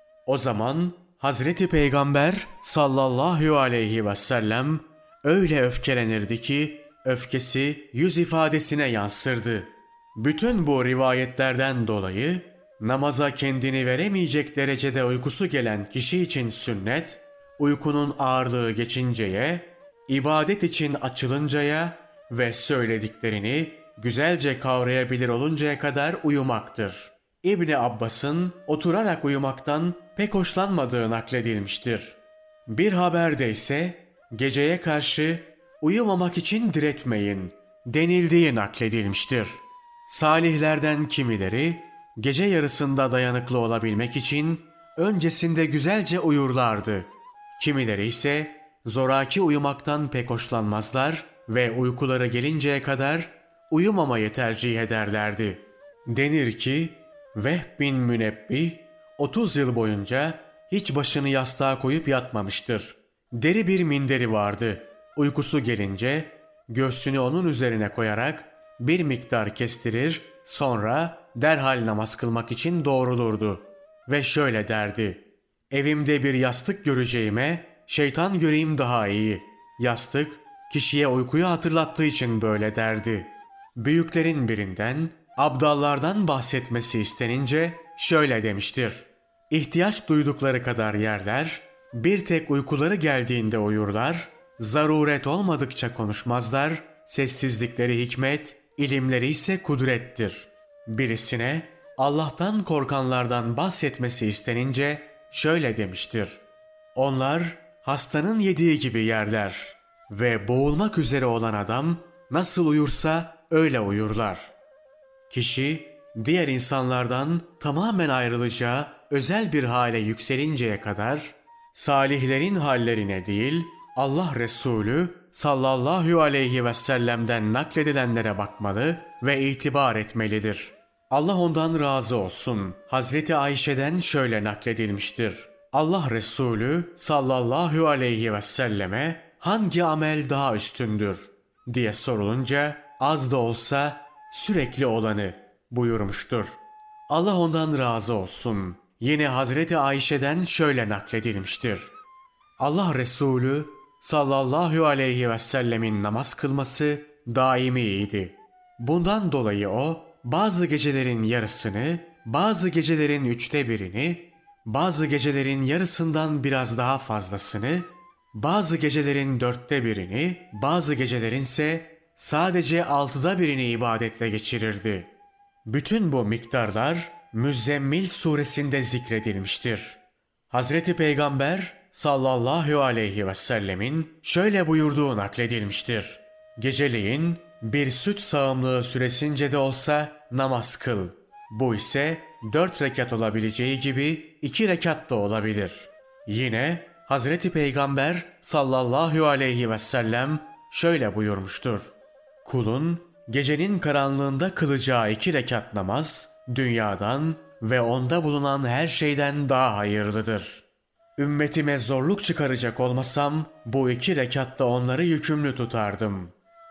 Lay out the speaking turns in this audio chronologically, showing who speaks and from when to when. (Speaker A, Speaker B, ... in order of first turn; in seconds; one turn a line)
Speaker A: 0.3-106.4
Speaker A: 107.0-114.5
Speaker A: 115.3-151.9
Speaker A: 152.6-175.1
Speaker A: 175.7-180.0
Speaker A: 180.5-210.7
Speaker A: 211.2-216.3